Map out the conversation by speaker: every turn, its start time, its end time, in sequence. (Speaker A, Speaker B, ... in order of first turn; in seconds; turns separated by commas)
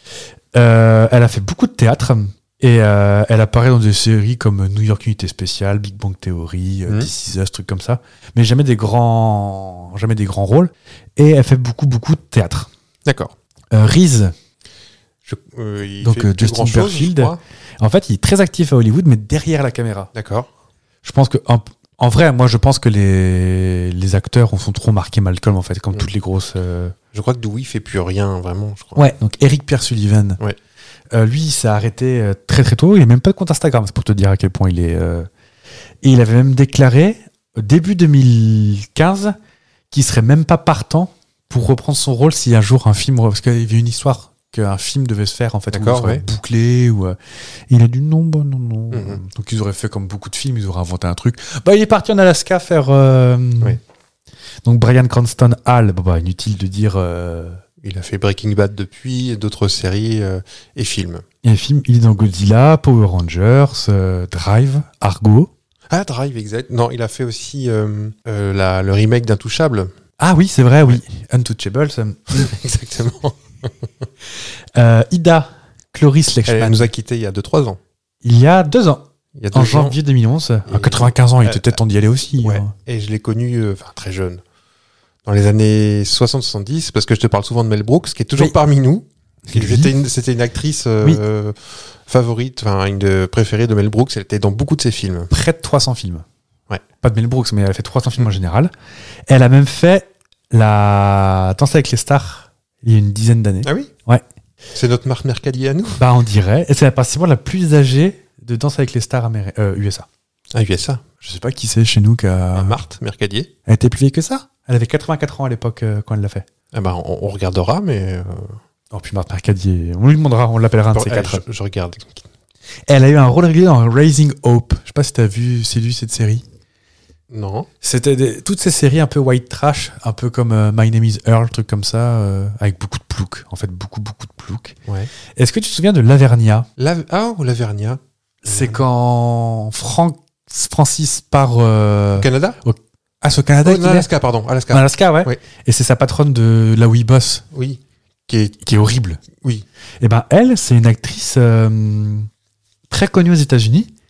Speaker A: 0.5-12.7, Speaker B: 13.1-13.3, Speaker A: 13.7-14.3, Speaker B: 15.3-17.4, Speaker A: 16.0-20.1, Speaker B: 20.1-20.5, Speaker A: 21.0-26.9, Speaker B: 27.1-29.1, Speaker A: 29.0-30.4, Speaker A: 31.1-35.3, Speaker A: 36.0-39.4, Speaker A: 39.9-47.2, Speaker B: 45.7-46.2, Speaker A: 47.7-53.8, Speaker B: 48.9-49.2, Speaker A: 54.6-57.6, Speaker B: 57.8-61.2, Speaker A: 61.4-65.5, Speaker B: 65.9-69.9, Speaker A: 70.2-72.5, Speaker B: 72.3-74.0, Speaker A: 74.8-76.9, Speaker B: 76.5-77.8, Speaker A: 78.2-82.7, Speaker B: 79.4-80.0, Speaker B: 80.7-81.8, Speaker B: 82.4-84.4, Speaker B: 85.2-95.3, Speaker A: 89.5-89.9, Speaker A: 95.3-96.2, Speaker A: 97.0-98.7, Speaker A: 99.3-104.2, Speaker B: 103.7-103.9, Speaker B: 104.8-106.0, Speaker A: 106.0-110.1, Speaker B: 110.5-111.0, Speaker A: 111.2-112.8, Speaker B: 112.5-113.5, Speaker A: 113.7-116.5, Speaker B: 116.7-118.6, Speaker A: 118.9-121.4, Speaker B: 120.9-122.2, Speaker A: 122.9-126.4, Speaker B: 127.3-127.7, Speaker A: 127.8-134.8, Speaker A: 135.4-136.7, Speaker B: 136.8-138.0, Speaker A: 138.4-144.1, Speaker B: 138.5-138.8, Speaker B: 142.2-142.6, Speaker B: 143.6-145.4, Speaker A: 144.7-147.4, Speaker B: 147.5-148.6, Speaker A: 148.6-149.2, Speaker B: 149.4-149.7, Speaker A: 150.0-152.3, Speaker A: 152.9-153.9